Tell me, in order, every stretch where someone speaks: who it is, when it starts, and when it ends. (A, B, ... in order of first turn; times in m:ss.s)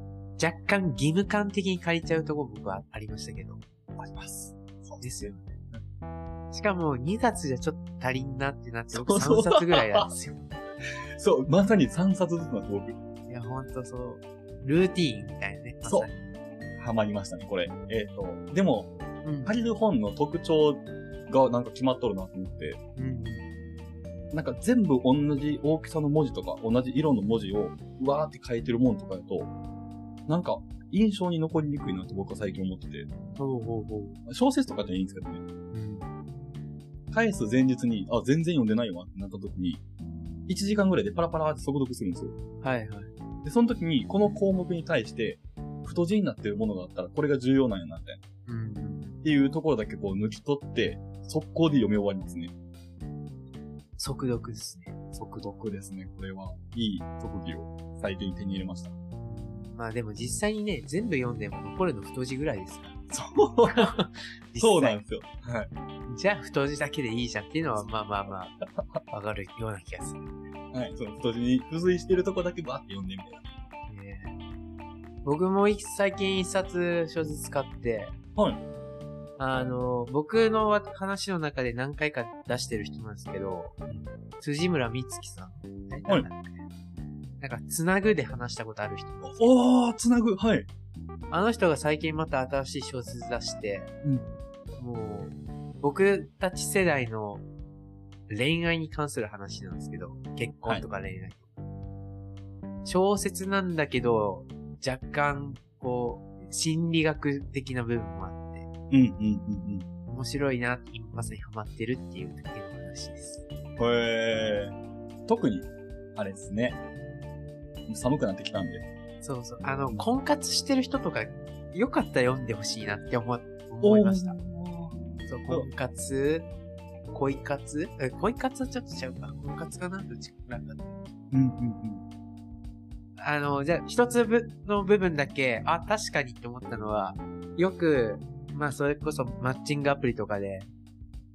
0:00.4-0:03.6 A
0:04.0-0:05.8 B
0:05.0-0:05.5 A
0:06.5-0:10.5 A
0:08.9-0:10.1 B
0:11.2-0:13.0 B
0:13.3-0:16.3 A
0:16.8-0:18.9 B
0:19.2-0:19.5 A
0:19.4-0:22.8 B
0:23.0-0:23.5 A
0:24.3-0:29.5 B
0:30.3-0:33.1 B
0:33.4-0:34.2 A
0:34.3-0:35.4 B
0:35.7-0:36.1 A
0:37.1-0:39.8 B
0:40.5-0:42.4 B
0:42.6-0:43.1 A
0:43.4-0:48.2 B
0:48.5-0:49.2 A
0:49.2-0:52.5 B
0:54.0-0:55.0 A
0:55.1-0:58.9 B
0:59.2-1:03.0 A
1:03.1-1:03.9 B
1:03.7-1:05.0 A
1:04.6-1:05.7 B
1:06.1-1:08.6 A
1:09.1-1:10.3 A
1:10.7-1:13.4 B
1:13.9-1:14.4 A
1:15.2-1:18.2 A
1:18.4-1:18.6 B
1:19.4-1:23.8 A
1:24.4-1:26.6 A
1:27.4-1:29.5 A
1:29.2-1:30.7 B
1:31.3-1:33.9 A
1:34.8-1:37.4 A
1:38.3-1:41.5 A
1:42.8-1:48.7 A
1:48.9-1:49.9 B
1:50.1-1:53.4 A
1:53.8-1:54.7 B
1:55.3-1:56.8 B
1:57.9-1:58.8 B
1:59.2-2:04.4 A
2:03.8-2:05.0 B
2:05.3-2:06.5 A
2:07.1-2:11.0 A
2:11.3-2:12.0 B
2:13.2-2:20.7 A